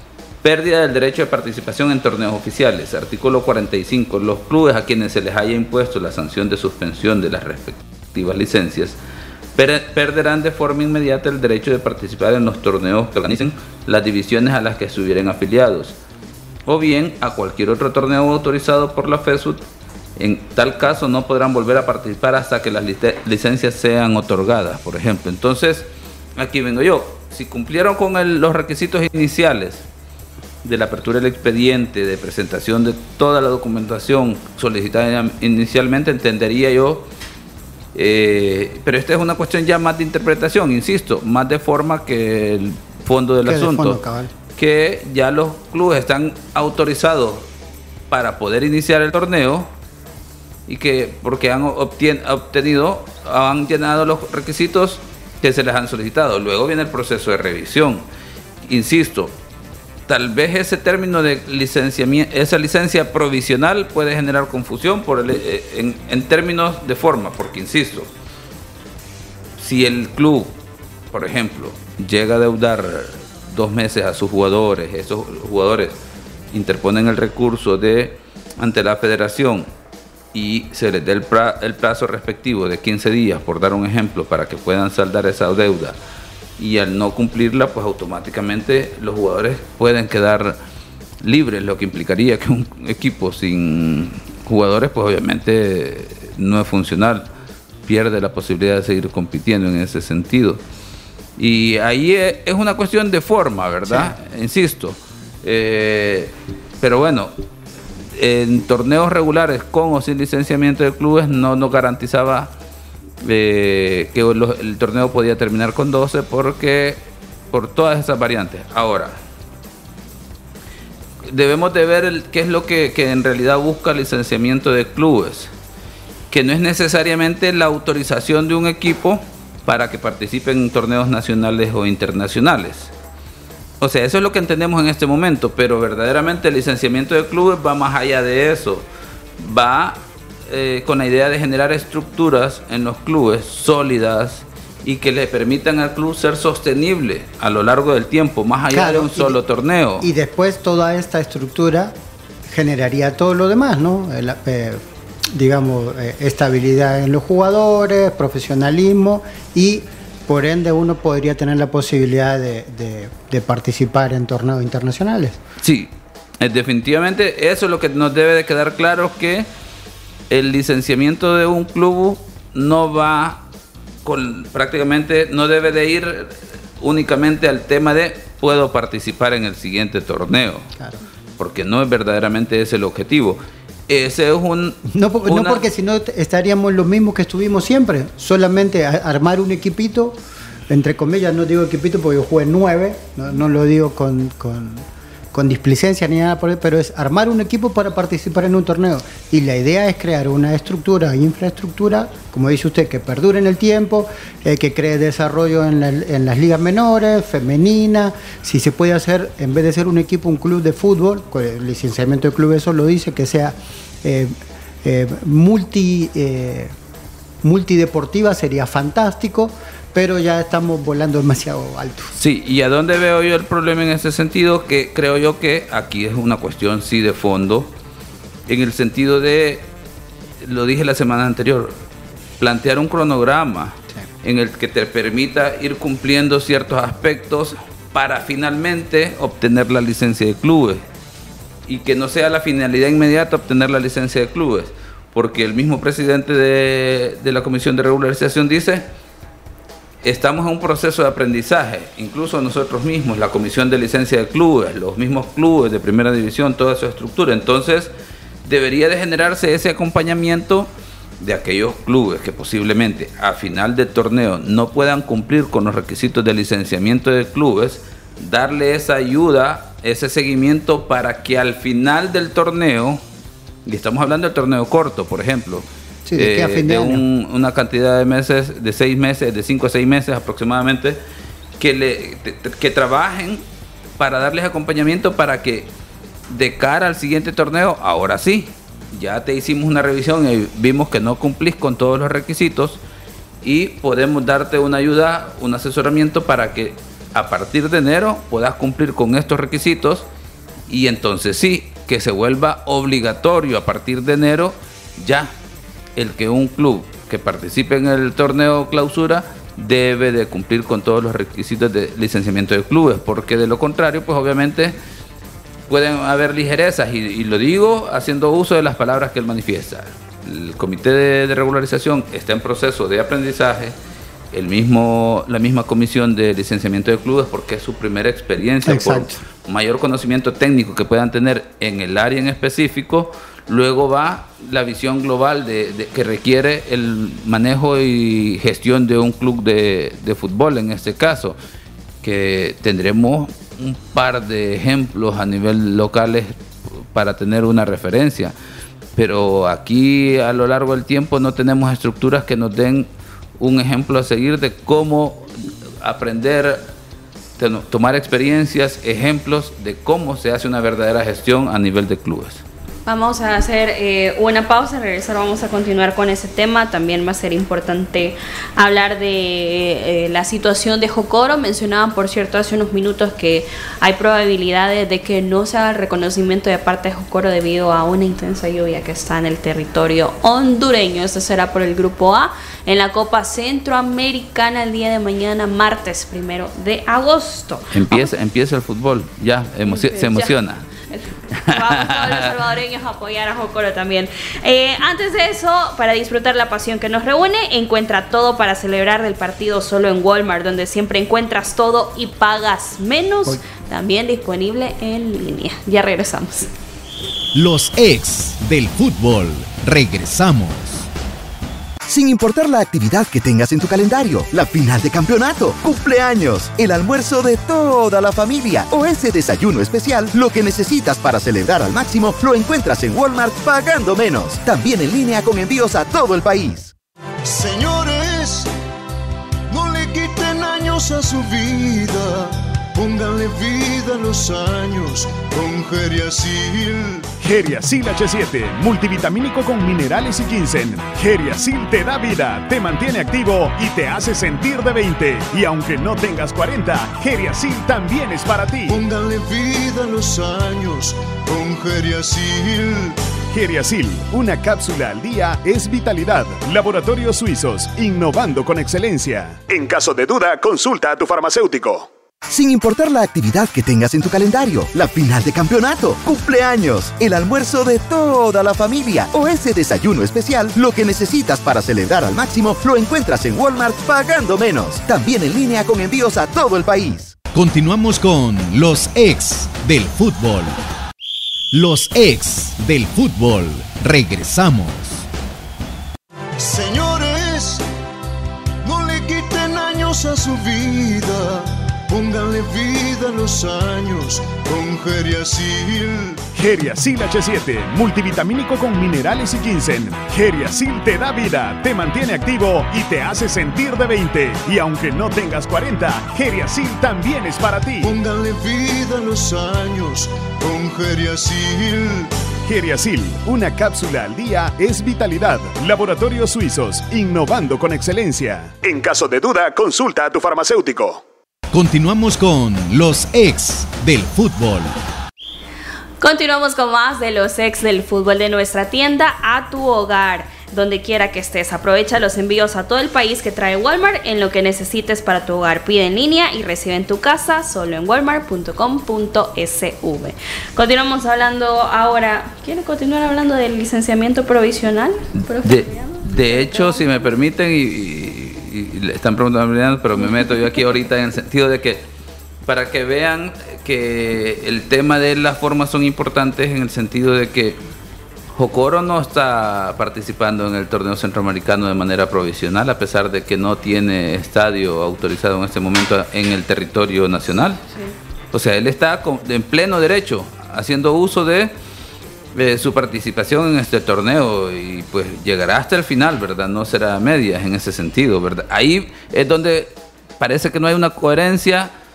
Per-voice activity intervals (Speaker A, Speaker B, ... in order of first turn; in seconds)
Speaker A: 0.4-9.0, 9.6-16.0, 16.7-19.6, 20.2-29.9, 30.6-37.1, 37.9-44.0, 44.6-47.5, 48.1-49.7, 50.7-58.0, 58.6-59.3, 60.1-68.1, 69.6-70.5, 71.1-75.9, 76.5-79.7, 80.3-86.0, 86.6-90.6, 91.2-97.3, 97.9-100.6, 101.4-107.3, 108.2-112.5, 113.2-119.2, 121.3-125.5, 126.3-132.9, 133.8-138.8, 139.4-150.1, 165.6-169.5, 170.3-173.4, 174.1-180.7, 181.4-185.6, 222.1-227.7, 228.5-229.7, 230.4-231.8, 232.4-240.8, 241.7-248.9, 250.0-257.9, 258.4-260.7, 261.2-273.0, 273.6-281.0, 281.6-283.4, 284.0-285.7, 286.3-292.8, 293.4-300.1, 300.7-305.3, 305.9-314.8, 315.7-323.7, 324.3-341.4, 342.0-346.4, 346.9-348.4, 348.9-356.6, 357.4-362.4, 387.7-390.6, 391.3-392.3, 545.4-551.8, 552.5-557.6, 558.3-567.6, 568.3-571.5, 572.4-581.7
Speaker B: 43.4-44.3, 103.9-104.1, 148.7-149.4, 150.0-151.9, 152.5-165.4, 184.9-216.7, 217.4-222.1, 276.1-277.0, 328.6-329.2
Speaker C: 362.9-388.1, 389.7-406.5, 526.0-546.8
Speaker D: 407.3-410.9, 477.2-480.6, 481.5-485.1, 521.5-524.8
Speaker E: 411.9-426.7, 462.3-477.2
Speaker F: 427.2-428.5, 429.5-437.1, 448.7-453.0, 486.4-487.6, 488.6-496.2, 507.8-512.1
Speaker G: 437.2-448.8, 453.3-461.9, 496.4-507.9, 512.5-521.0